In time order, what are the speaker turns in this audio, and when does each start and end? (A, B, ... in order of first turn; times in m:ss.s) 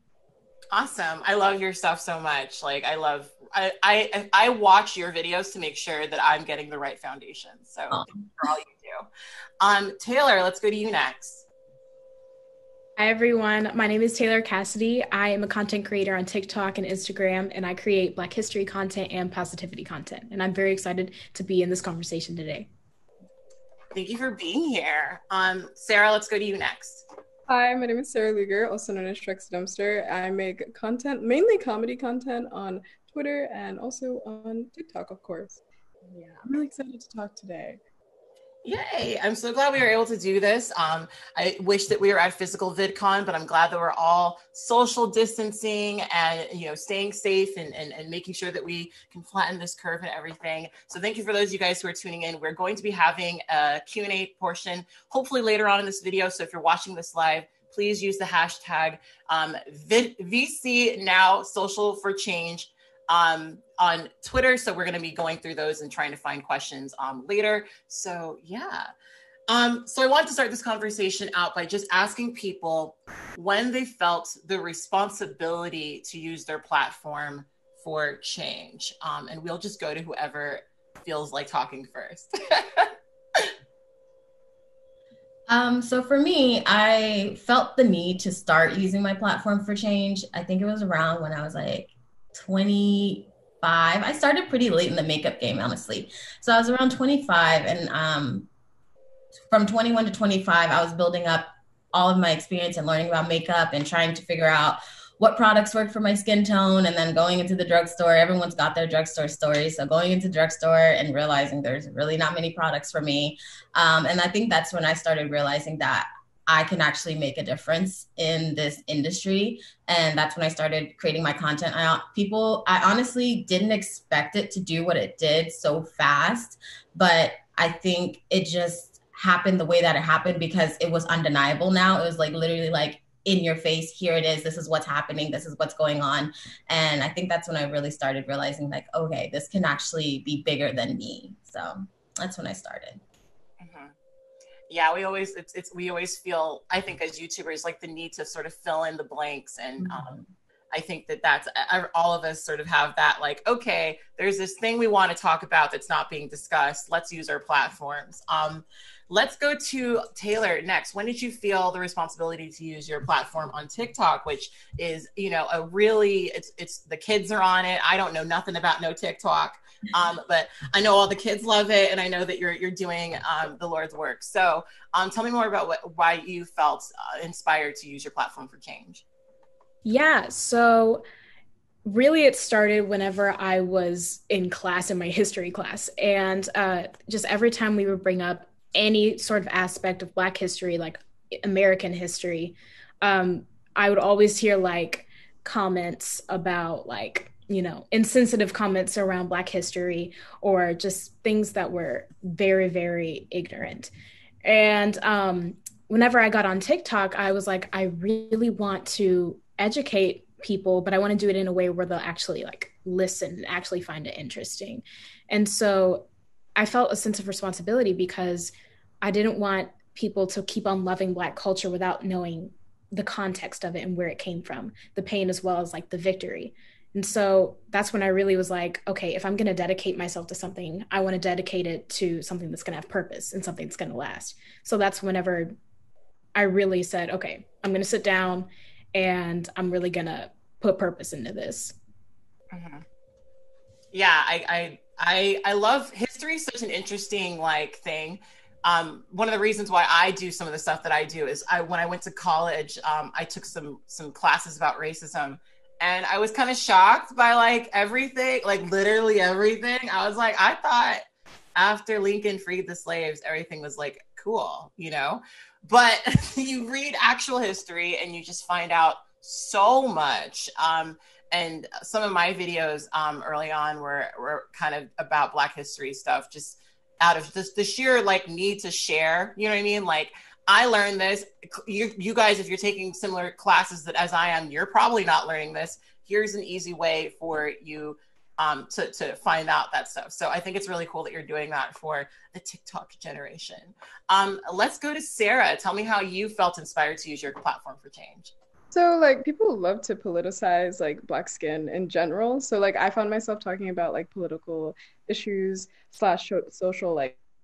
0:00.7-0:09.1 A
0:07.9-0:08.3 B
0:09.6-0:11.4 A
0:13.0-0:22.7 C
0:23.9-0:27.0 A
0:27.5-0:35.6 D
0:36.4-0:37.8 D
0:38.6-1:08.9 A
1:09.5-1:23.5 A
1:25.5-1:38.5 B
1:39.5-2:23.0 B
2:23.6-2:23.9 A
2:24.7-2:30.0 A
2:29.8-2:30.3 B
2:30.7-2:59.0 A
2:59.8-3:01.0 C
3:01.8-3:23.9 C
3:24.4-3:55.6 C
3:56.4-4:01.8 C
4:02.5-4:02.8 A
4:03.9-4:21.0 A
4:21.6-4:58.3 A
4:58.7-5:07.2 D